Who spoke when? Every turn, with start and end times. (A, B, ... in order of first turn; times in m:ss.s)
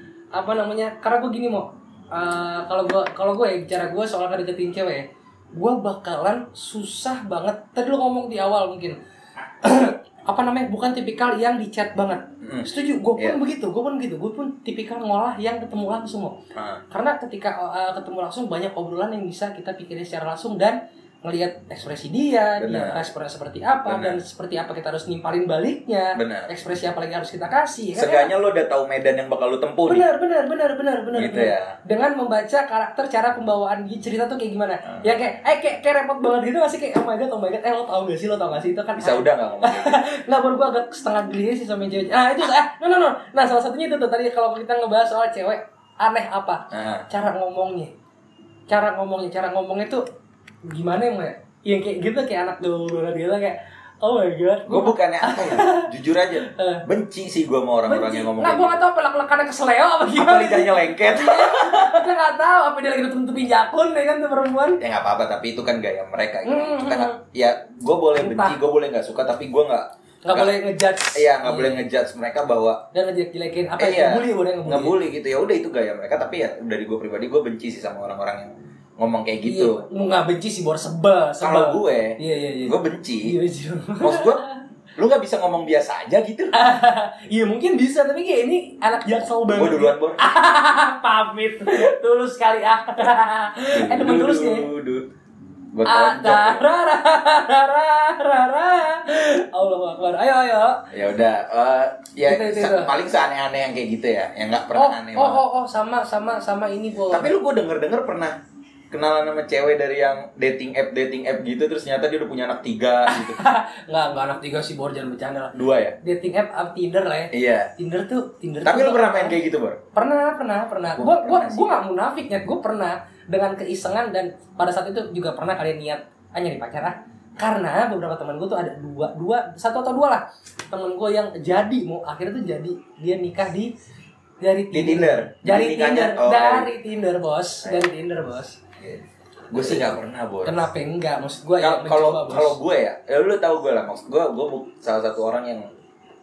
0:00.3-0:09.0 A
0:09.6-0:16.4 A
0:12.4-0:13.4 B
0:16.5-0:16.8 B
0:16.9-0:28.3 A
0:22.5-0:23.0 B
0:23.8-0:24.2 B
0:26.1-0:26.5 B
0:27.9-0:30.1 B
0:29.9-0:47.9 A
0:31.1-0:31.8 B
0:39.0-0:40.0 B
0:46.7-0:47.1 B
0:48.7-0:50.0 A
0:50.6-0:56.8 A
0:54.7-0:58.8 B
0:57.9-1:04.8 A
1:00.1-1:02.0 B
1:04.8-1:10.5 B
1:06.4-1:07.2 A
1:08.2-1:08.6 A
1:10.2-1:11.8 A
1:11.1-1:12.8 B
1:12.9-1:15.0 A
1:13.8-1:19.8 B
1:19.4-1:24.6 A
1:21.4-1:23.4 B
1:24.0-1:24.4 B
1:25.0-1:26.5 B
1:26.5-1:34.7 A
1:29.5-1:30.2 B
1:33.7-1:35.1 B
1:35.7-1:36.6 B
1:35.8-1:40.8 A
1:40.9-1:45.4 B
1:42.2-1:42.9 A
1:44.7-1:47.3 A
1:47.1-1:48.4 B
1:48.9-1:53.4 B
1:53.1-1:59.4 A
1:55.5-1:56.0 B
1:57.3-1:57.7 B
1:58.6-1:59.8 B
1:59.9-2:13.7 A
2:00.9-2:01.8 B
2:14.4-2:18.6 A
2:14.7-2:16.7 B
2:17.6-2:17.9 B
2:18.8-2:20.6 B
2:19.5-2:19.9 A
2:20.4-2:22.6 A
2:21.6-2:25.7 B